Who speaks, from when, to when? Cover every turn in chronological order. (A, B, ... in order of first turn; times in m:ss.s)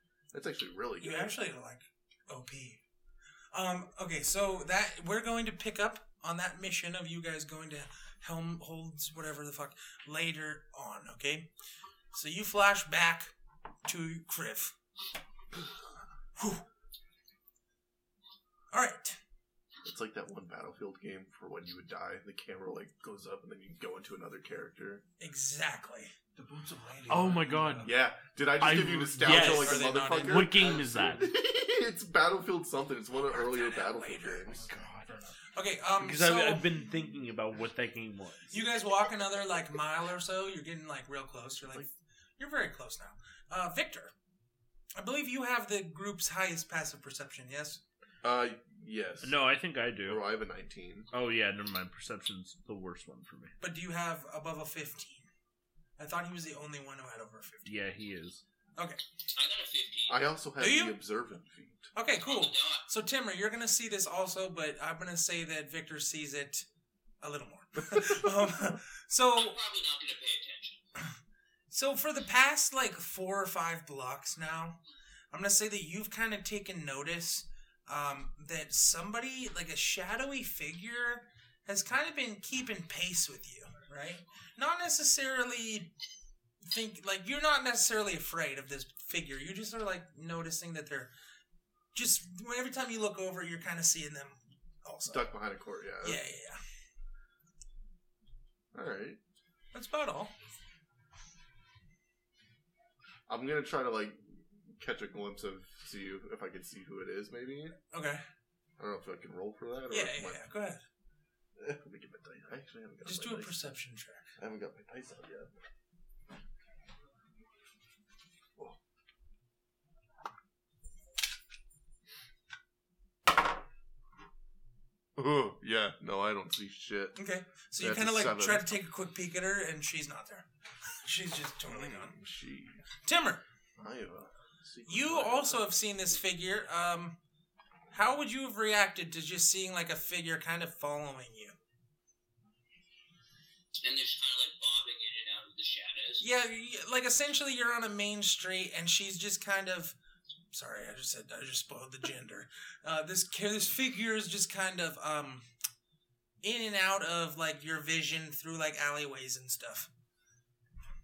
0:00.3-0:01.4 A
0:01.0-0:02.8 B
0:03.5-0:11.5 B
0:12.1-0:13.3 B
0:13.8-0:14.7 B
0:16.4-0:16.6 B
0:18.7-0:19.2 B
0:19.8-0:25.0 A
0:25.2-0:26.1 B
0:26.4-0:28.0 C
0:27.1-0:27.9 D
0:27.8-0:34.7 A
0:28.6-0:31.3 D
0:29.2-0:30.6 B
0:33.2-0:34.6 B
0:34.5-0:35.4 C
0:34.8-0:35.0 D
0:35.5-0:36.7 B
0:36.0-0:38.5 D
0:38.5-0:44.1 B
0:45.0-0:47.8 B
0:48.2-0:49.4 A
0:49.2-0:50.2 D
0:50.0-0:51.1 A
0:51.1-0:53.6 D
0:53.6-0:55.3 B
0:56.0-0:57.7 B
0:57.6-0:58.4 D
0:59.3-1:00.2 E
1:00.1-1:01.9 A
1:00.6-1:01.0 B
1:01.9-1:06.6 B
1:02.2-1:02.9 E
1:07.2-1:09.6 B
1:09.4-1:10.8 E
1:11.7-1:14.8 B
1:15.3-1:25.9 B
1:26.6-1:31.1 B
1:31.9-1:35.3 B
1:35.1-1:36.2 A
1:36.0-1:36.6 B
1:38.7-1:39.2 A
1:39.7-1:40.3 B
1:43.3-1:47.8 A
1:47.9-1:48.2 B
1:48.8-1:50.4 A
1:49.9-1:50.8 B
1:51.6-1:53.7 A
1:53.0-1:54.3 B
1:54.4-1:55.5 A
2:05.2-2:07.2 A
2:07.2-2:10.4 B
2:07.8-2:08.6 A
2:11.0-2:12.1 B
2:11.6-2:12.8 A
2:13.0-2:13.4 B
2:13.8-2:15.7 A
2:14.9-2:17.2 B
2:17.9-2:21.6 B
2:23.8-2:26.2 E
2:26.2-2:29.9 B
2:30.5-2:35.4 B
2:36.4-2:39.9 B